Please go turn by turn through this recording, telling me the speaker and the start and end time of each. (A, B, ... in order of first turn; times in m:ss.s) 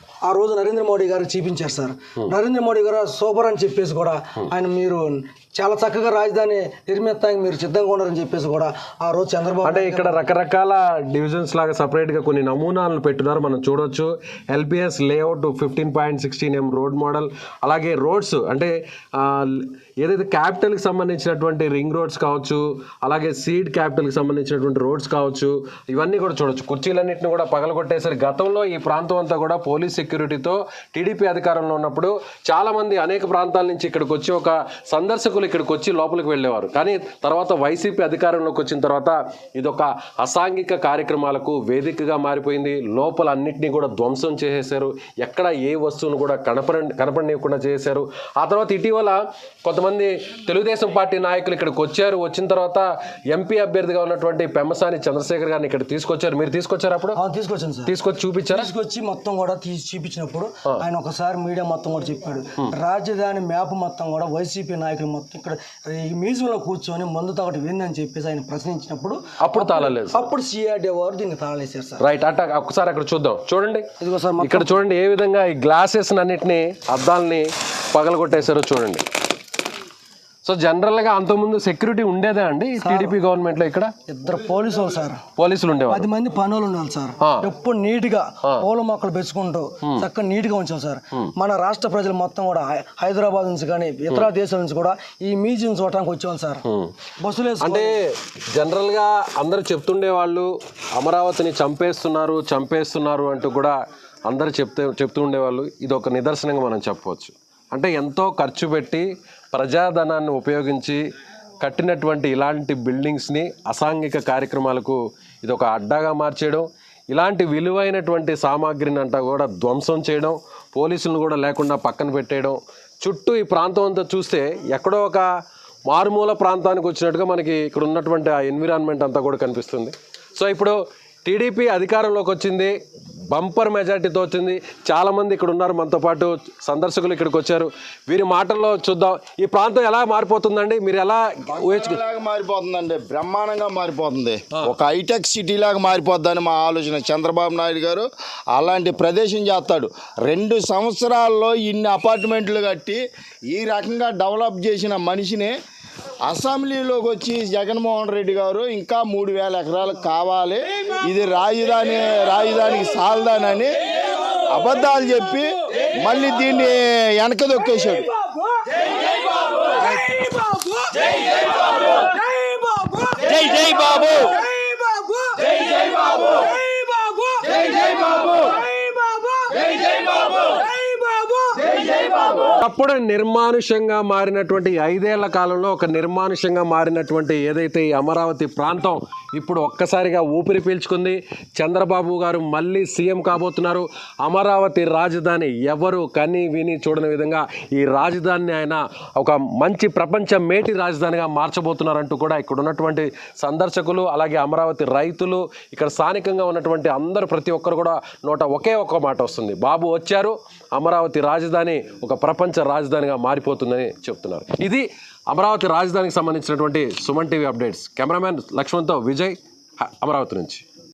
0:00.2-0:10.2 A
0:09.6-0:57.2 B
0:57.2-0:57.9 A
0:57.9-0:58.7 B
0:58.5-1:12.0 A
1:09.4-1:10.3 B
1:12.0-1:13.9 B
1:14.0-1:14.8 A
1:14.4-1:19.0 B
1:20.4-1:23.9 B
1:22.8-1:23.2 A
1:24.1-1:25.2 A
1:25.4-1:26.1 B
1:25.9-1:36.6 A
1:36.7-1:36.9 B
1:37.2-1:37.9 A
1:37.6-1:38.0 B
1:38.5-1:43.8 B
1:44.3-1:51.0 B
1:51.6-2:05.2 B
2:05.9-2:12.7 B
2:13.3-2:22.0 B
2:21.6-2:35.5 C
2:36.2-2:43.7 C
2:44.5-2:48.1 C
2:48.5-3:02.3 A
3:02.4-3:40.6 B